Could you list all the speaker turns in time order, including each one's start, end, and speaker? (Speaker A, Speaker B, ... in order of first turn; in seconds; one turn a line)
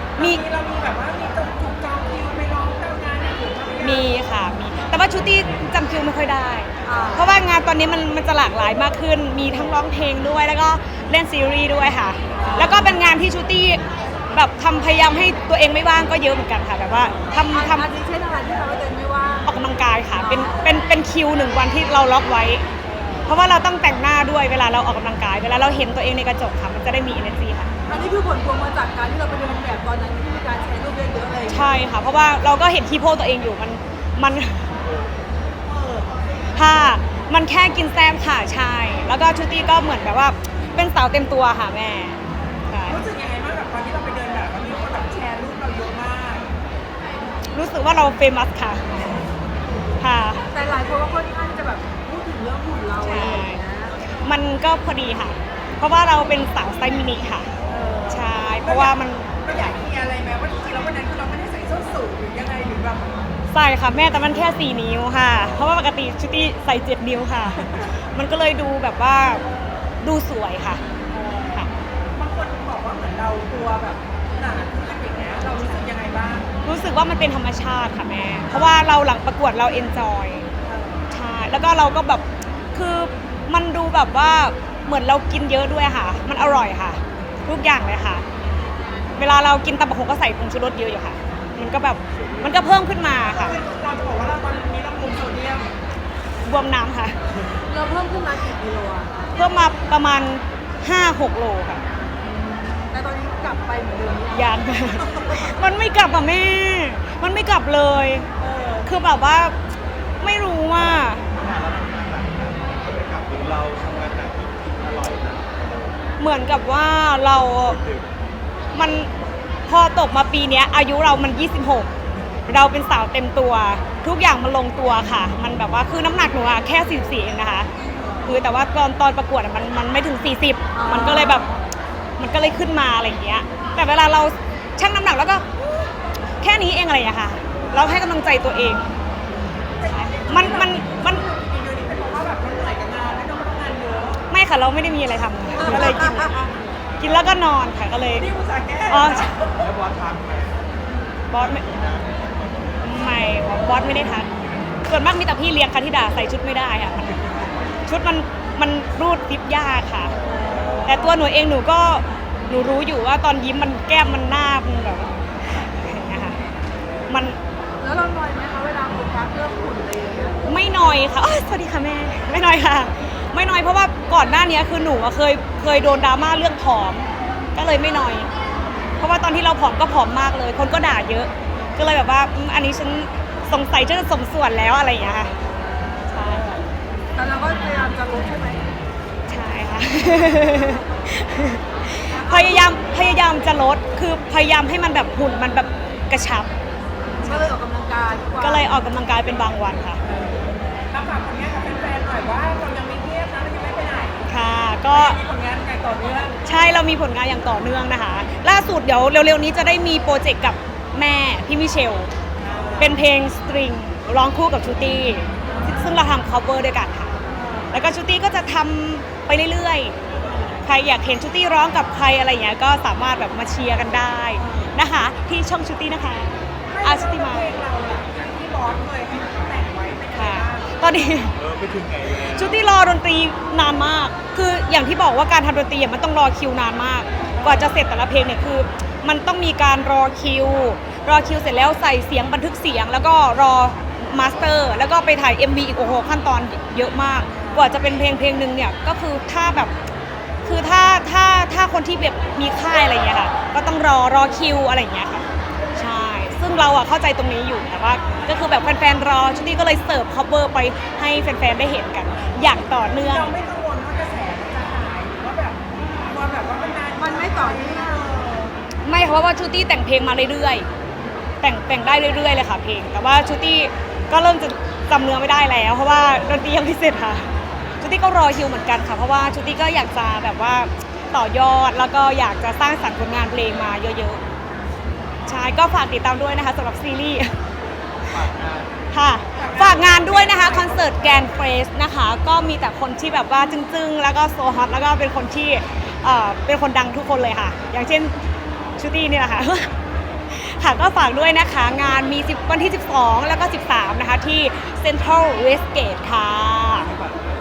Speaker A: 0.2-4.1
Speaker B: 3.8-17.9
Speaker C: 6.8-7.4
Speaker C: 12.3-13.0
Speaker C: 17.5-19.6
Speaker B: 19.4-22.6
Speaker C: 20.1-20.7
Speaker B: 23.2-27.7
Speaker C: 27.9-31.8
Speaker B: 31.5-34.7
Speaker A: 35.6-36.1
Speaker B: 36.6-43.0
Speaker A: 42.9-46.5
Speaker B: 47.5-49.2
Speaker B: 50.0-50.4
Speaker C: 50.5-54.0
Speaker B: 53.0-53.6
Speaker B: 54.2-57.5
Speaker A: 57.6-63.2
Speaker B: 58.1-59.3
Speaker B: 63.5-69.4
Speaker B: 70.0-70.8
Speaker A: 71.1-76.5
Speaker B: 76.6-80.5
Speaker A: 78.5-78.8
Speaker A: 80.6-81.0
Speaker B: 81.1-88.2
Speaker B: 89.2-93.6
Speaker D: 92.2-92.5
Speaker A: 93.3-95.7
Speaker B: 96.4-97.2
Speaker C: 97.6-99.2
Speaker B: 99.3-101.8
Speaker C: 102.2-105.4
Speaker B: 104.3-108.3
Speaker A: 108.4-108.9
Speaker B: 108.8-109.6
Speaker B: 110.2-111.2
Speaker D: 111.2-116.0
Speaker B: 116.2-117.8
Speaker D: 117.7-118.1
Speaker B: 118.8-119.1
Speaker B: 119.7-121.9
Speaker B: 122.5-127.7
Speaker B: 128.2-131.5
Speaker C: 130.7-131.5
Speaker B: 132.2-135.4
Speaker B: 136.4-138.8
Speaker A: 139.8-144.2
Speaker B: 139.9-141.2
Speaker B: 144.3-146.4
Speaker B: 147.0-148.3
Speaker A: 148.1-149.7
Speaker B: 148.9-149.3
Speaker D: 149.6-150.6
Speaker B: 151.3-151.6
Speaker D: 151.6-152.2
Speaker B: 152.8-154.3
Speaker B: 154.9-157.3
Speaker B: 157.8-160.1
Speaker C: 160.3-160.8
Speaker D: 160.3-160.8
Speaker A: 160.7-161.0
Speaker B: 160.8-166.4
Speaker B: 167.1-167.4
Speaker C: 167.8-170.4
Speaker B: 170.4-178.3
Speaker B: 179.0-185.3
Speaker B: 186.1-186.4
Speaker A: 186.3-186.6
Speaker C: 187.1-188.6
Speaker B: 189.3-196.5
Speaker C: 192.1-192.8
Speaker B: 197.2-197.5
Speaker C: 197.2-198.8
Speaker B: 198.4-200.0
Speaker C: 200.1-200.4
Speaker A: 200.9-204.3
Speaker B: 204.3-205.2
Speaker A: 204.9-206.4
Speaker B: 206.4-212.1
Speaker A: 212.4-213.0
Speaker B: 212.8-217.2
Speaker A: 217.3-217.8
Speaker B: 217.7-219.9
Speaker A: 220.2-220.6
Speaker B: 220.6-227.5
Speaker A: 224.4-224.7
Speaker A: 226.7-230.8
Speaker B: 230.1-231.4
Speaker D: 231.3-232.6
Speaker B: 232.3-249.7
Speaker A: 237.3-237.8
Speaker B: 250.4-263.3
Speaker A: 262.9-268.5
Speaker C: 267.0-268.0
Speaker B: 268.8-270.7
Speaker B: 271.4-277.3
Speaker B: 277.8-284.2
Speaker B: 285.3-287.4
Speaker D: 288.0-288.7
Speaker B: 288.9-298.1
Speaker A: 289.3-291.3
Speaker B: 298.8-299.7
Speaker B: 300.3-306.9
Speaker D: 306.9-307.2